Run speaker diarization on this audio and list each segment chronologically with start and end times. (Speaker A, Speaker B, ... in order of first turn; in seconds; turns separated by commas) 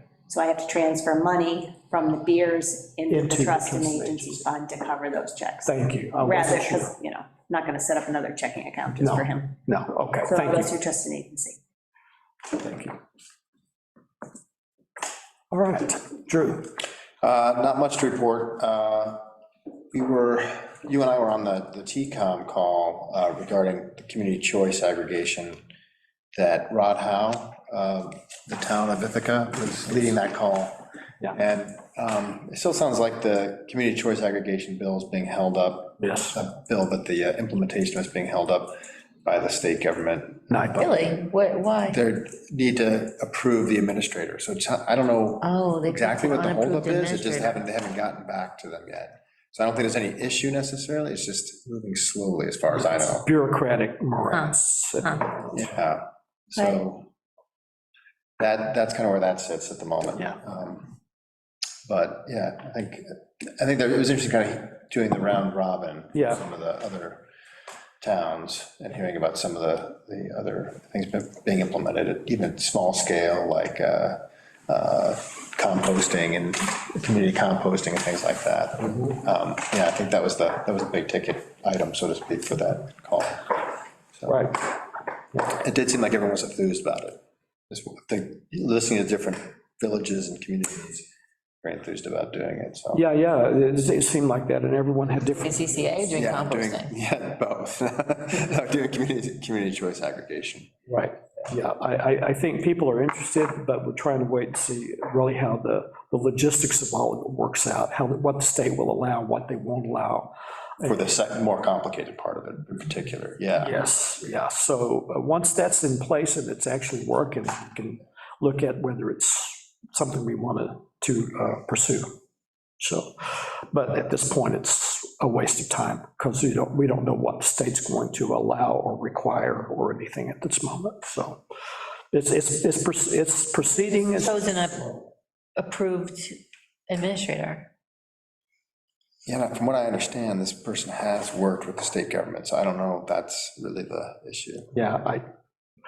Speaker A: 0.3-9.6, Speaker B: 3.1-4.4, Speaker B: 5.7-6.9, Speaker B: 9.0-10.7, Speaker A: 10.3-11.6, Speaker B: 12.5-13.0, Speaker B: 15.5-16.7, Speaker C: 17.2-19.3, Speaker C: 19.9-25.6, Speaker C: 26.4-41.2, Speaker B: 36.0-36.4, Speaker B: 40.5-40.9, Speaker D: 40.8-42.0, Speaker C: 41.9-53.3, Speaker D: 45.4-47.6, Speaker B: 53.0-55.7, Speaker D: 54.3-55.2, Speaker C: 55.5-57.1, Speaker C: 58.4-61.0, Speaker C: 61.9-67.3, Speaker B: 66.2-66.4, Speaker C: 68.0-83.5, Speaker C: 84.2-84.6, Speaker B: 84.3-84.6, Speaker C: 85.4-87.2, Speaker C: 87.7-91.1, Speaker C: 91.6-93.0, Speaker B: 92.9-95.9, Speaker D: 95.3-96.9, Speaker C: 96.1-100.7, Speaker B: 100.9-111.0, Speaker C: 110.8-113.8, Speaker B: 113.6-122.1, Speaker B: 122.8-131.4, Speaker B: 132.1-134.3, Speaker D: 134.1-136.4, Speaker D: 136.9-137.7, Speaker C: 139.3-144.7, Speaker B: 144.7-145.2